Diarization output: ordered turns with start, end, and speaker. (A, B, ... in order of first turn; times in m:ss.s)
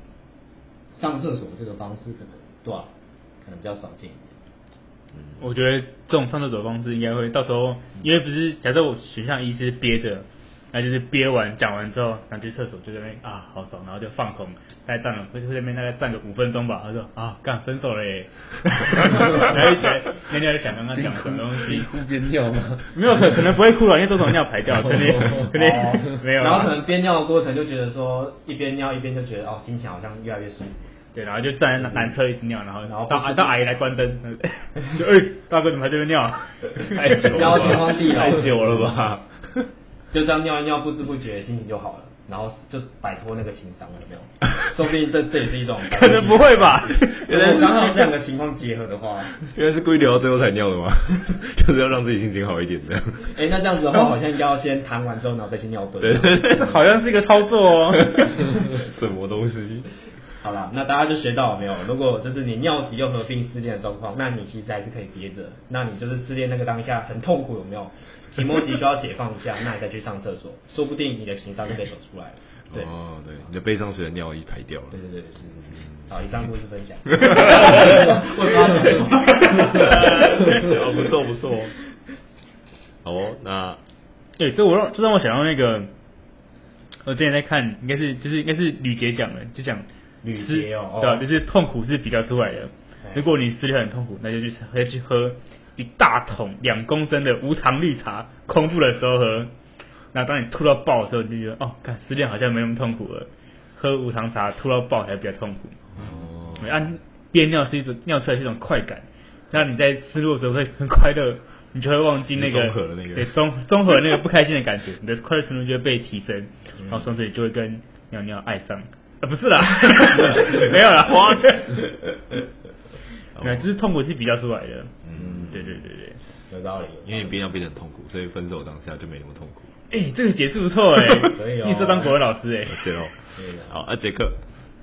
0:00.9-0:02.9 A
0:03.4-0:04.4 A
0:05.1-0:05.4 B
0:05.4-0:21.9 C
0:20.9-0:23.5 D
0:22.9-0:26.8 C
0:25.5-0:30.9 A
0:31.1-0:39.0 C
0:31.8-0:32.2 A
0:32.8-0:33.5 A
0:36.9-0:39.7 B
0:37.3-0:38.6 A
0:40.1-0:49.3 A
0:45.9-0:48.0 C
0:47.0-0:47.9 B
0:49.3-0:53.4 B
0:53.2-0:56.8 A
0:56.0-0:56.6 B
0:56.6-0:58.4 C
0:57.9-0:59.9 B
1:00.4-1:12.9 A
1:12.7-1:15.0 B
1:14.9-1:20.8 A
1:15.7-1:16.1 B
1:17.3-1:18.2 B
1:19.6-1:20.4 C
1:19.7-1:21.7 B
1:23.0-1:23.8 B
1:24.4-1:25.9 C
1:27.0-1:39.5 C
1:30.2-1:31.2 A
1:40.1-1:45.8 C
1:45.9-1:46.7 B
1:46.6-2:01.8 C
1:52.3-1:53.4 B
2:00.3-2:01.9 B
2:03.4-2:03.7 B
2:03.4-2:04.9 C
2:05.0-2:05.8 B
2:05.1-2:05.6 A
2:05.5-2:06.2 C
2:06.5-2:07.4 A
2:07.0-2:09.7 B
2:09.9-2:13.1 C
2:11.3-2:12.2 A
2:12.6-2:14.4 B
2:13.3-2:13.8 A